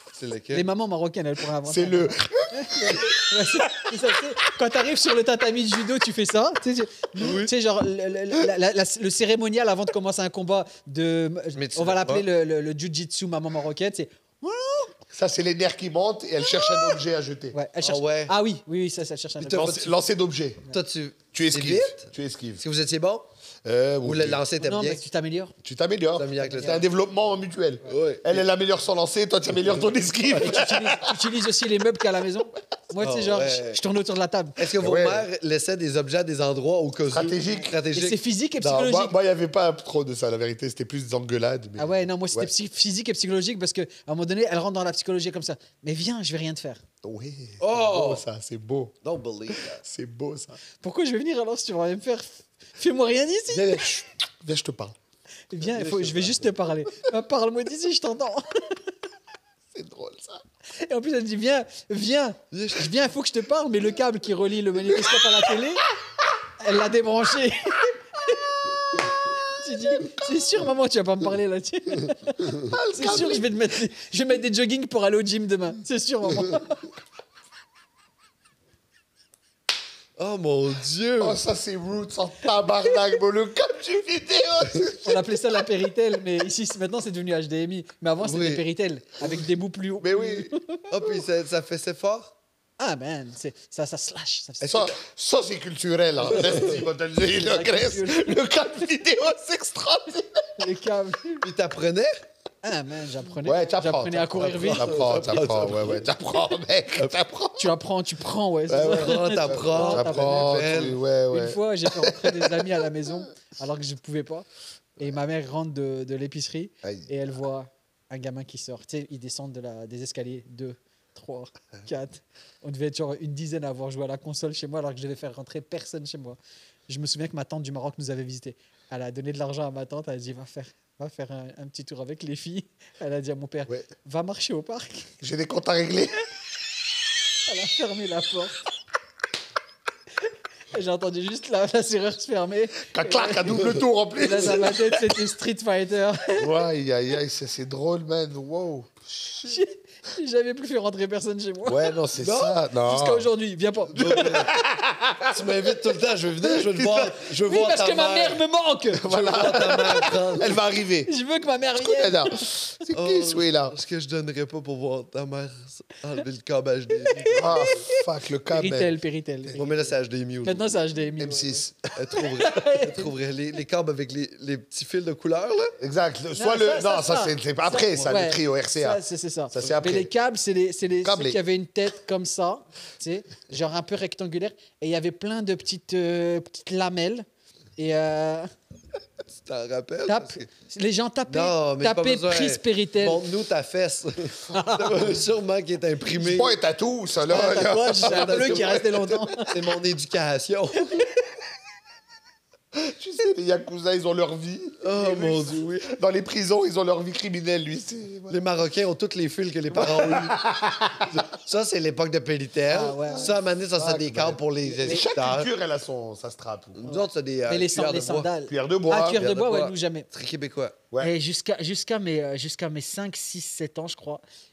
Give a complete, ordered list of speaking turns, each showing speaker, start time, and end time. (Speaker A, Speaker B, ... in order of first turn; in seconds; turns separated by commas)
Speaker A: 0.1-0.7, Speaker B: 0.5-15.0, Speaker C: 1.6-3.9, Speaker A: 7.2-7.5, Speaker A: 11.5-12.2, Speaker C: 15.1-17.5, Speaker B: 16.5-17.0, Speaker B: 17.5-19.9, Speaker A: 17.8-18.3, Speaker A: 19.4-19.8, Speaker C: 19.5-20.6, Speaker A: 20.7-23.3, Speaker C: 21.3-22.6, Speaker C: 23.6-24.4, Speaker A: 24.0-25.0, Speaker B: 24.6-25.5, Speaker C: 25.6-31.2, Speaker A: 26.1-26.8, Speaker B: 26.4-26.8, Speaker A: 27.8-28.4, Speaker B: 30.3-34.6, Speaker A: 33.0-33.8, Speaker A: 34.6-38.2, Speaker C: 34.7-35.2, Speaker C: 37.1-37.7, Speaker B: 37.9-39.1, Speaker C: 38.6-42.5, Speaker B: 41.8-46.8, Speaker C: 47.0-49.0, Speaker A: 47.6-48.2, Speaker A: 49.0-49.8, Speaker C: 49.5-50.6, Speaker B: 50.8-53.9, Speaker C: 53.5-55.0, Speaker B: 55.5-58.8, Speaker A: 55.7-56.4, Speaker C: 59.7-60.4, Speaker B: 60.8-65.9, Speaker A: 62.5-62.9, Speaker C: 64.9-65.6, Speaker B: 66.6-76.8, Speaker C: 72.6-73.5, Speaker A: 80.2-81.4, Speaker C: 81.2-85.5, Speaker B: 82.4-83.0, Speaker B: 85.0-90.8, Speaker A: 88.2-88.6, Speaker C: 89.2-89.5, Speaker C: 90.0-90.5, Speaker A: 90.9-92.3, Speaker B: 92.8-94.9, Speaker C: 94.6-100.7, Speaker B: 96.3-98.4, Speaker B: 100.6-101.4, Speaker A: 101.4-102.1, Speaker B: 102.6-105.4, Speaker C: 103.4-107.7, Speaker A: 104.4-106.1, Speaker B: 107.6-135.1, Speaker C: 108.7-112.7, Speaker A: 108.8-111.0, Speaker C: 116.8-117.1, Speaker C: 135.2-136.2, Speaker B: 137.5-138.6, Speaker B: 140.7-146.5, Speaker C: 142.8-145.2, Speaker C: 146.3-149.6, Speaker B: 149.4-154.4, Speaker C: 151.6-153.3, Speaker A: 152.2-152.5, Speaker A: 153.9-154.5, Speaker C: 153.9-155.8, Speaker A: 155.3-158.4, Speaker C: 156.5-157.1, Speaker B: 157.2-160.5, Speaker C: 158.9-161.1, Speaker A: 159.1-160.6, Speaker B: 161.1-162.5, Speaker C: 161.8-163.8, Speaker A: 162.9-167.6, Speaker B: 167.0-169.6, Speaker C: 167.3-169.7, Speaker A: 169.5-170.8, Speaker B: 170.4-173.1, Speaker C: 171.2-171.8, Speaker A: 171.9-175.7, Speaker C: 175.8-180.1, Speaker B: 176.3-187.2, Speaker C: 181.0-181.4, Speaker B: 187.8-188.5, Speaker A: 189.3-190.5, Speaker B: 190.1-193.2, Speaker A: 191.3-196.6, Speaker B: 194.5-195.2, Speaker C: 196.2-199.4, Speaker B: 197.3-199.5, Speaker A: 198.0-198.8, Speaker A: 199.4-201.1, Speaker C: 202.7-208.4, Speaker A: 204.8-205.9, Speaker A: 208.3-210.3, Speaker B: 209.9-210.2, Speaker C: 210.0-211.2, Speaker A: 211.1-215.5, Speaker B: 212.7-213.3, Speaker C: 213.0-216.8, Speaker B: 214.7-215.0, Speaker A: 216.7-218.3, Speaker B: 216.9-220.1, Speaker C: 218.4-219.2, Speaker A: 219.2-220.8, Speaker B: 221.0-224.2